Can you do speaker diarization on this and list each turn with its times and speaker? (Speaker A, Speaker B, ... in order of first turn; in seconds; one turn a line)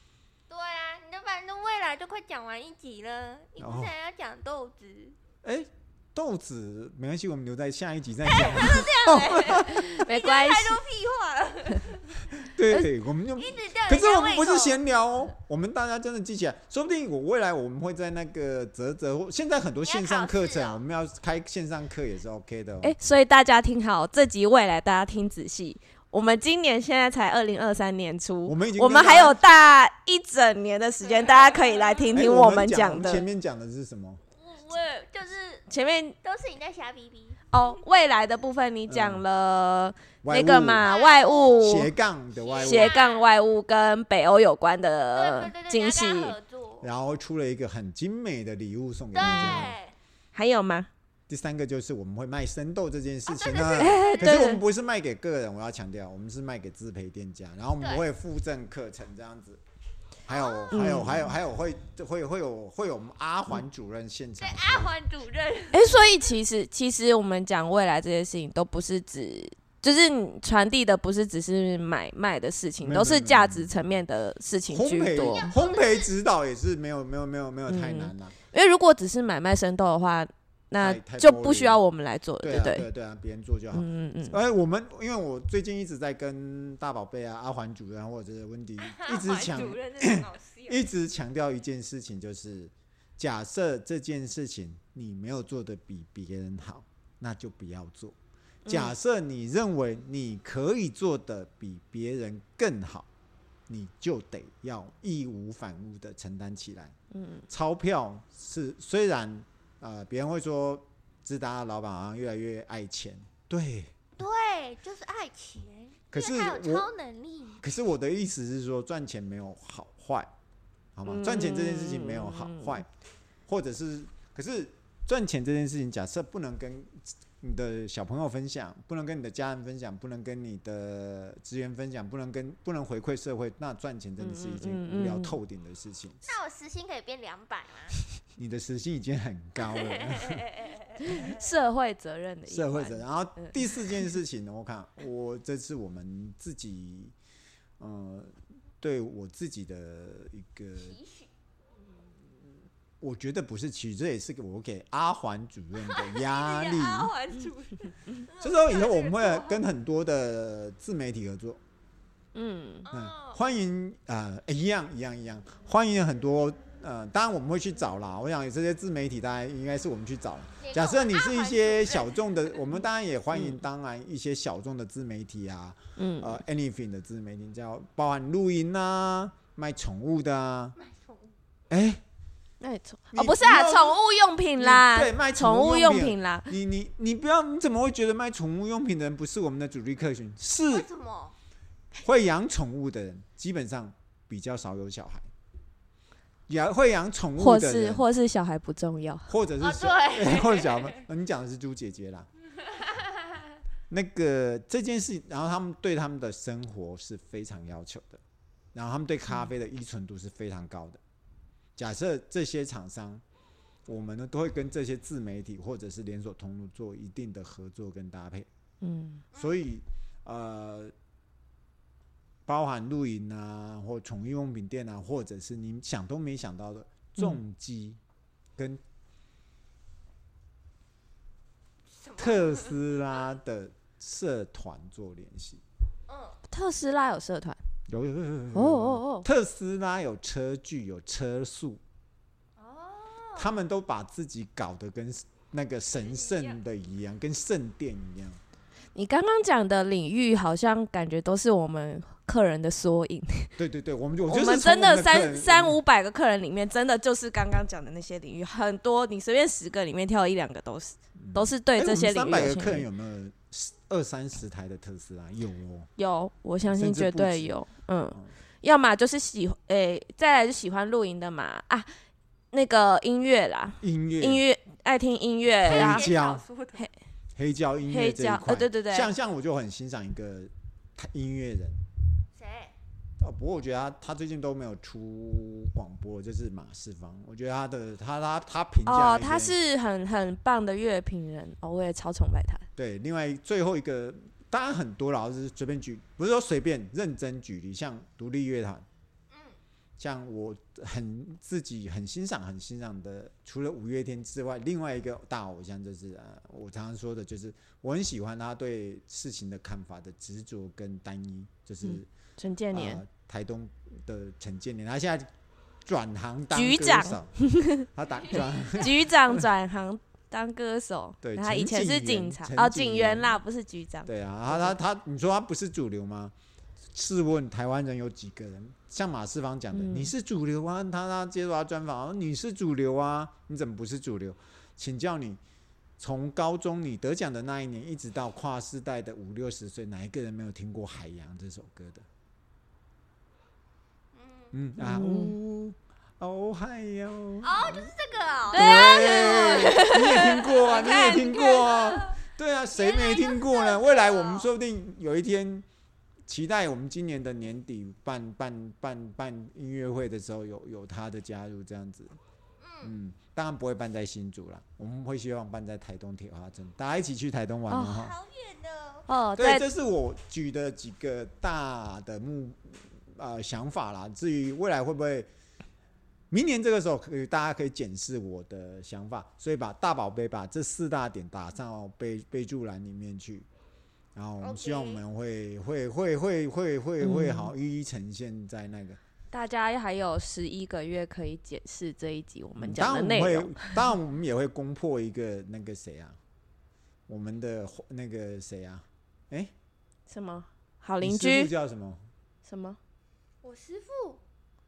Speaker A: 0.5-5.2
Speaker B: 3.6-3.9
Speaker B: 5.4-9.7
Speaker A: 8.3-12.1
Speaker C: 9.2-10.8
Speaker B: 12.4-23.0
Speaker A: 13.4-14.8
Speaker A: 19.8-20.8
Speaker C: 22.8-33.2
Speaker B: 28.4-29.4
Speaker A: 31.2-31.9
Speaker B: 32.1-34.2
Speaker A: 34.4-35.6
Speaker C: 35.7-36.1
Speaker A: 36.2-37.8
Speaker C: 37.5-41.9
Speaker B: 38.9-39.2
Speaker B: 40.2-40.9
Speaker A: 40.8-41.7
Speaker B: 41.5-43.0
Speaker A: 42.3-43.3
Speaker C: 42.6-46.4
Speaker A: 45.1-46.9
Speaker B: 46.8-49.8
Speaker A: 49.1-49.9
Speaker C: 49.2-49.6
Speaker C: 50.3-50.9
Speaker B: 51.3-59.6
Speaker A: 53.3-54.5
Speaker C: 53.8-54.6
Speaker A: 57.8-58.1
Speaker B: 60.3-65.0
Speaker A: 60.3-60.7
Speaker C: 60.7-61.4
Speaker A: 64.4-66.1
Speaker C: 65.7-75.5
Speaker B: 72.8-73.8
Speaker B: 74.7-78.4
Speaker A: 75.2-76.1
Speaker C: 77.7-82.9
Speaker B: 80.8-81.8
Speaker B: 82.4-98.2
Speaker C: 83.7-84.4
Speaker A: 88.8-90.9
Speaker C: 98.7-99.0
Speaker B: 98.7-103.1
Speaker B: 103.7-106.9
Speaker C: 107.1-107.4
Speaker B: 107.5-114.1
Speaker A: 114.2-117.6
Speaker B: 116.1-116.9
Speaker B: 117.6-120.3
Speaker B: 121.0-122.9
Speaker C: 121.1-122.8
Speaker B: 123.5-136.2
Speaker C: 134.2-135.4
Speaker A: 136.2-137.9
Speaker B: 138.4-140.5
Speaker A: 139.7-141.3
Speaker C: 140.9-144.1
Speaker B: 142.5-147.1
Speaker B: 147.8-151.0
Speaker A: 150.8-151.3
Speaker B: 153.0-157.1
Speaker A: 155.8-159.7
Speaker B: 158.4-161.6
Speaker C: 162.3-162.9
Speaker A: 162.9-163.4
Speaker B: 162.9-180.8
Speaker A: 170.6-172.6
Speaker C: 173.3-173.6
Speaker C: 176.0-176.4
Speaker A: 180.8-181.3
Speaker B: 181.7-182.0
Speaker C: 182.6-186.6
Speaker B: 183.1-184.0
Speaker B: 184.6-190.9
Speaker A: 190.7-191.3
Speaker B: 192.0-195.3
Speaker B: 196.5-198.1
Speaker C: 197.4-199.3
Speaker B: 199.3-202.3
Speaker A: 199.6-201.1
Speaker B: 203.9-208.2
Speaker B: 208.7-211.0
Speaker B: 211.8-213.2
Speaker B: 213.9-218.5
Speaker C: 218.8-219.2
Speaker B: 219.3-220.9
Speaker B: 222.5-228.0
Speaker A: 232.0-232.9
Speaker B: 232.2-235.6
Speaker A: 236.1-236.4
Speaker C: 236.5-237.6
Speaker B: 237.9-241.8
Speaker C: 238.6-239.3
Speaker A: 242.6-243.5
Speaker B: 243.4-248.4
Speaker A: 246.0-246.6
Speaker C: 248.9-253.6
Speaker B: 253.6-255.8
Speaker C: 254.3-262.9
Speaker B: 261.2-265.9
Speaker C: 266.0-271.9
Speaker B: 266.7-268.4
Speaker C: 272.5-276.1
Speaker B: 273.8-274.4
Speaker A: 275.6-276.9
Speaker B: 275.6-276.4
Speaker B: 277.4-281.8
Speaker C: 277.9-279.1
Speaker A: 282.4-282.7
Speaker B: 283.2-289.6
Speaker C: 288.9-292.7
Speaker B: 292.8-298.9
Speaker A: 299.3-299.6
Speaker B: 300.0-312.1
Speaker C: 311.8-313.0
Speaker B: 312.7-315.3
Speaker B: 315.9-319.4
Speaker C: 316.5-324.8
Speaker A: 318.3-318.7
Speaker B: 321.2-323.4
Speaker B: 324.1-326.3
Speaker B: 326.9-335.4
Speaker C: 329.7-330.1
Speaker B: 336.0-342.1
Speaker A: 344.1-344.5
Speaker B: 344.5-347.9
Speaker C: 344.8-345.4
Speaker A: 347.4-352.2
Speaker C: 348.5-350.4
Speaker B: 348.5-355.6
Speaker A: 352.7-354.5
Speaker B: 356.3-362.2
Speaker A: 362.6-363.0
Speaker B: 362.8-368.2
Speaker C: 367.7-368.0
Speaker A: 367.9-369.1
Speaker C: 369.1-369.7
Speaker B: 369.4-375.3
Speaker B: 376.3-383.5
Speaker B: 384.1-389.0
Speaker A: 384.4-385.0
Speaker C: 387.0-387.5
Speaker C: 389.3-393.8
Speaker B: 392.6-396.2
Speaker B: 397.1-399.5
Speaker C: 400.1-401.5
Speaker B: 401.0-402.1
Speaker C: 402.4-402.8
Speaker A: 403.4-404.2